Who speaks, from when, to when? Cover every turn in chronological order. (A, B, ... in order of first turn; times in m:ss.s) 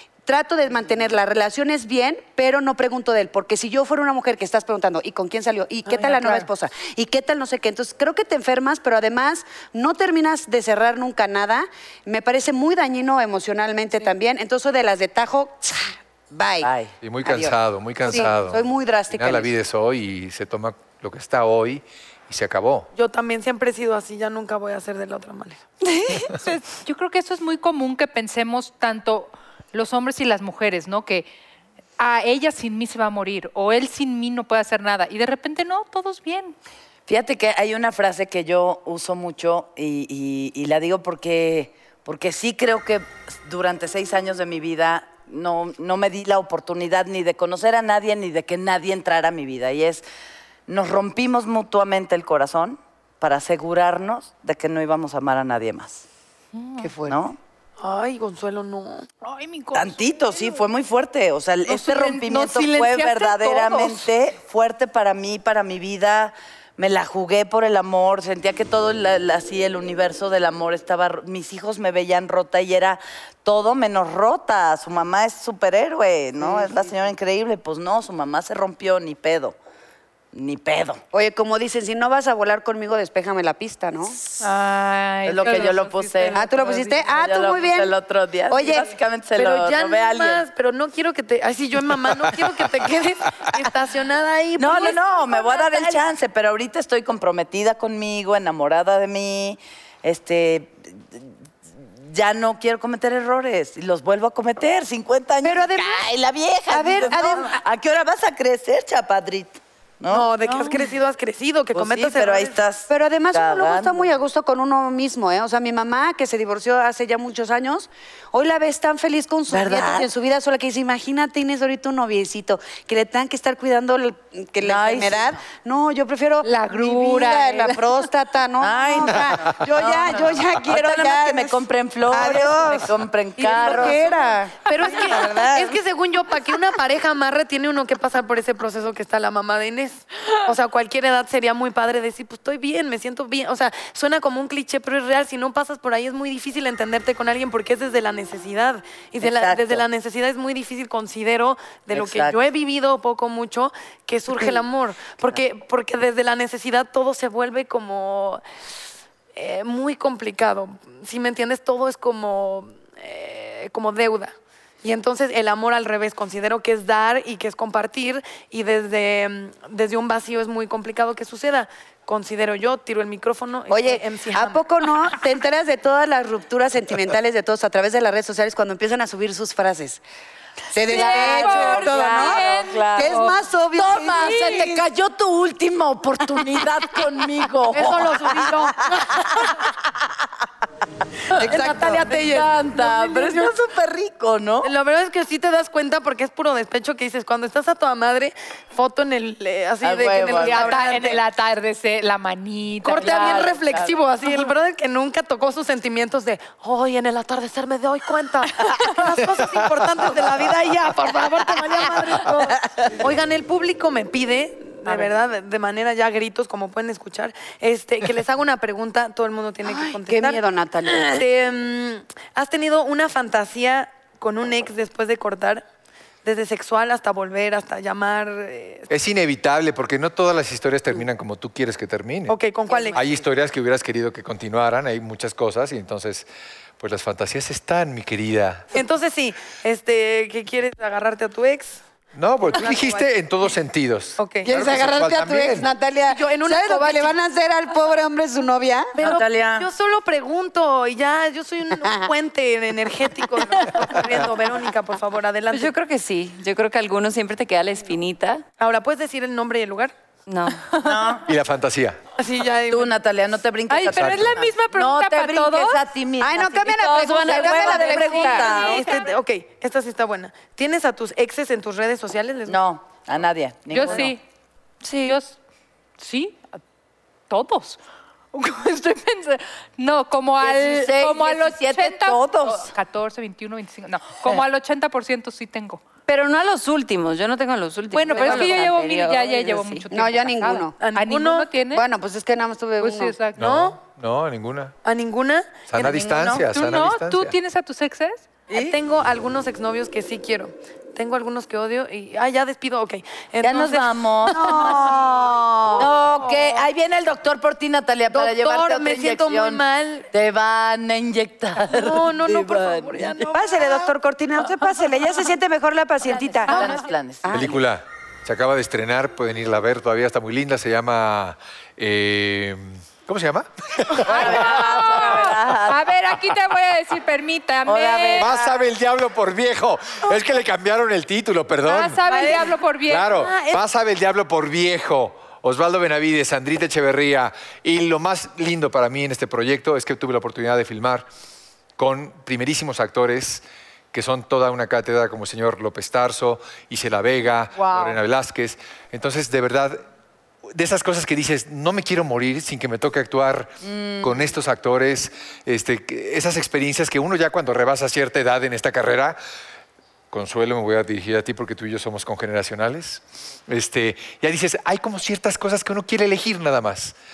0:00.3-0:16.7 A
0:05.9-0:06.3 B
0:16.6-0:16.9 C
0:17.0-0:22.9 D
0:17.2-0:19.5 A
0:22.9-0:25.6 B
0:25.8-0:26.6 E
0:26.8-0:31.3 F
0:32.0-0:36.6 F
0:37.1-0:50.0 C
0:50.7-0:56.0 C
0:56.5-0:56.9 F
0:57.0-0:57.4 C
0:57.8-0:59.1 B
0:59.2-1:00.6 F
0:59.7-1:19.6 C
1:01.7-1:04.1 F
1:16.4-1:17.0 A
1:20.3-1:21.0 C
1:21.1-1:24.2 A
1:24.4-1:26.7 F
1:25.2-1:30.5 C
1:26.3-1:27.9 A
1:28.5-1:28.9 A
1:29.4-1:36.0 B
1:34.6-1:41.3 C
1:41.8-1:50.3 C
1:45.4-1:46.1 A
1:46.7-1:47.6 A
1:47.0-1:47.5 B
1:50.1-1:52.6 B
1:50.5-1:50.7 F
1:51.7-1:54.2 C
1:52.9-2:15.8 A
1:59.5-2:00.1 C
2:04.6-2:05.4 C
2:06.4-2:07.9 F
2:08.6-2:14.2 C
2:14.7-2:38.4 B
2:14.7-2:15.2 F
2:29.2-2:29.8 C
2:31.9-2:32.4 C
2:34.3-2:34.6 C
2:39.4-2:54.6 B
2:53.7-3:00.0 A
3:00.7-3:04.6 A
3:00.9-3:09.7 C
3:00.9-3:03.4 F
3:04.1-3:04.8 F
3:07.7-3:09.4 B
3:11.3-3:14.7 C
3:11.4-3:12.4 A
3:12.8-3:13.5 B
3:14.6-3:21.2 B
3:19.8-3:20.8 C
3:20.4-3:23.5 F
3:22.8-3:45.6 B
3:23.0-3:24.0 C
3:28.6-3:28.9 F
3:29.4-3:29.6 D
3:39.6-3:41.2 A
3:46.2-3:48.9 B
3:48.9-3:52.4 D
3:52.3-3:53.1 B
3:52.9-3:56.3 D
3:56.8-3:58.7 D
3:58.7-4:01.8 B
4:02.1-4:05.7 D
4:02.4-4:03.1 B
4:04.2-4:04.5 B
4:04.4-4:08.9 A
4:06.1-4:07.2 B
4:09.0-4:15.7 B
4:09.0-4:09.7 C
4:11.8-4:12.1 A
4:13.9-4:14.3 D
4:15.5-4:18.4 E
4:18.6-4:19.9 B
4:20.3-4:20.6 E
4:20.8-4:21.3 C
4:21.3-4:22.0 D
4:22.2-4:23.0 B
4:22.7-4:28.9 C
4:23.7-4:25.8 F
4:24.0-4:24.3 D
4:26.2-4:28.6 A
4:26.7-4:28.0 E
4:27.5-4:32.6 B
4:27.7-4:29.1 F
4:32.5-4:34.1 C
4:33.7-4:34.2 F
4:34.8-4:35.2 E
4:35.0-4:35.4 F
4:36.0-4:36.4 F
4:37.3-4:37.8 F
4:38.3-4:45.8 F
4:40.4-4:42.7 C
4:46.1-4:49.9 E
4:47.9-4:51.8 F
4:48.2-4:48.5 B
4:49.9-4:50.8 A
4:50.8-4:51.5 B
4:51.7-4:53.2 A
4:52.8-4:53.4 F
4:53.4-4:54.7 D
4:53.4-4:53.8 B
4:54.8-4:56.1 B
4:55.7-4:57.4 D
4:55.8-4:56.5 C
4:56.4-4:58.2 F
4:58.5-4:58.8 C
4:58.5-5:04.9 B
5:03.4-5:05.1 C
5:04.4-5:05.9 A
5:05.0-5:05.3 F
5:05.8-5:13.2 C
5:05.9-5:06.6 F
5:08.1-5:10.1 B
5:11.7-5:13.9 B
5:13.3-5:17.6 A
5:16.0-5:17.6 C
5:16.5-5:16.8 F
5:17.3-5:24.8 D
5:23.9-5:25.9 C
5:24.0-5:28.3 F
5:27.6-5:28.7 C
5:28.2-5:32.0 D
5:31.6-5:33.1 F
5:32.1-5:32.5 B
5:32.9-5:41.1 D
5:33.1-5:33.6 B
5:41.8-5:49.8 D
5:47.6-5:48.0 F
5:50.5-5:59.2 D
5:53.6-5:54.4 C
6:00.1-6:07.0 D